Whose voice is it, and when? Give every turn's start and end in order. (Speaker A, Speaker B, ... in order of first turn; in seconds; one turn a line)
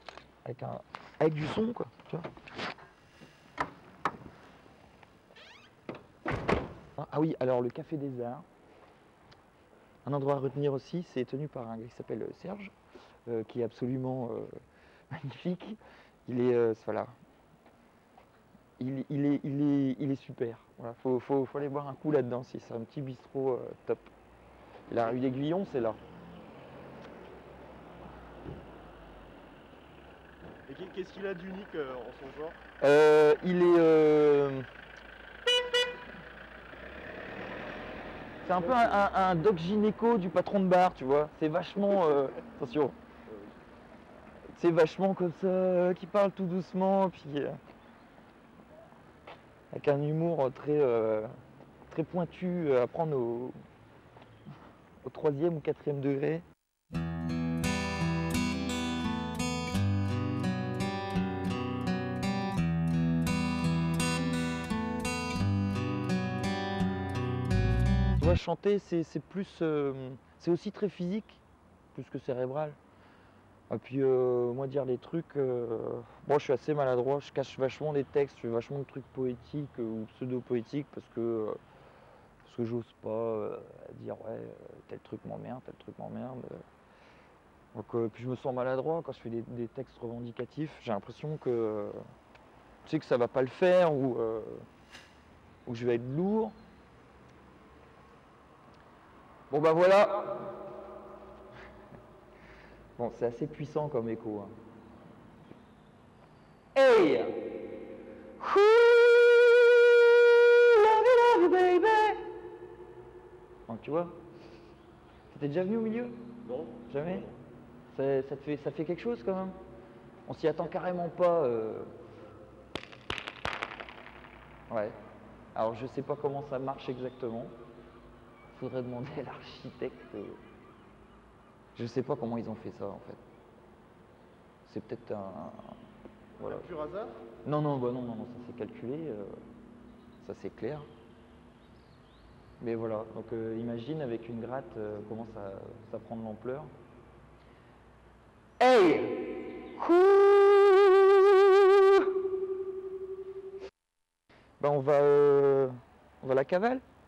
Speaker A: 0.4-2.3
Speaker A: 7.0-8.4
Speaker A: 10.1-12.7
Speaker A: 13.3-14.5
Speaker A: 15.1-17.1
Speaker A: 18.8-24.1
Speaker A: 24.9-26.0
Speaker B: 30.7-32.6
Speaker A: 32.8-34.7
Speaker A: 38.4-43.0
Speaker B: 38.6-39.0
Speaker A: 44.6-47.6
Speaker A: 49.7-51.3
Speaker A: 51.9-53.6
Speaker A: 55.0-56.5
Speaker A: 68.2-71.4
Speaker A: 71.9-72.8
Speaker A: 73.7-81.6
Speaker A: 82.4-86.6
Speaker A: 87.7-92.0
Speaker A: 92.8-94.7
Speaker A: 95.7-96.5
Speaker A: 99.5-100.5
Speaker A: 103.0-104.5
Speaker A: 106.8-107.4
Speaker A: 108.4-112.2
Speaker A: 113.7-114.2
Speaker A: 115.3-116.2
Speaker B: 116.5-117.3
Speaker A: 116.9-117.3
Speaker A: 117.9-119.6
Speaker A: 120.3-121.9
Speaker A: 124.7-125.0
Speaker A: 125.5-127.5
Speaker A: 128.5-130.4
Speaker A: 131.8-133.2
Speaker A: 134.7-135.8
Speaker A: 136.4-136.7
Speaker B: 136.4-137.2
Speaker A: 137.4-139.3
Speaker A: 140.2-140.8
Speaker A: 142.6-146.7
Speaker A: 148.6-152.1
Speaker A: 154.6-156.8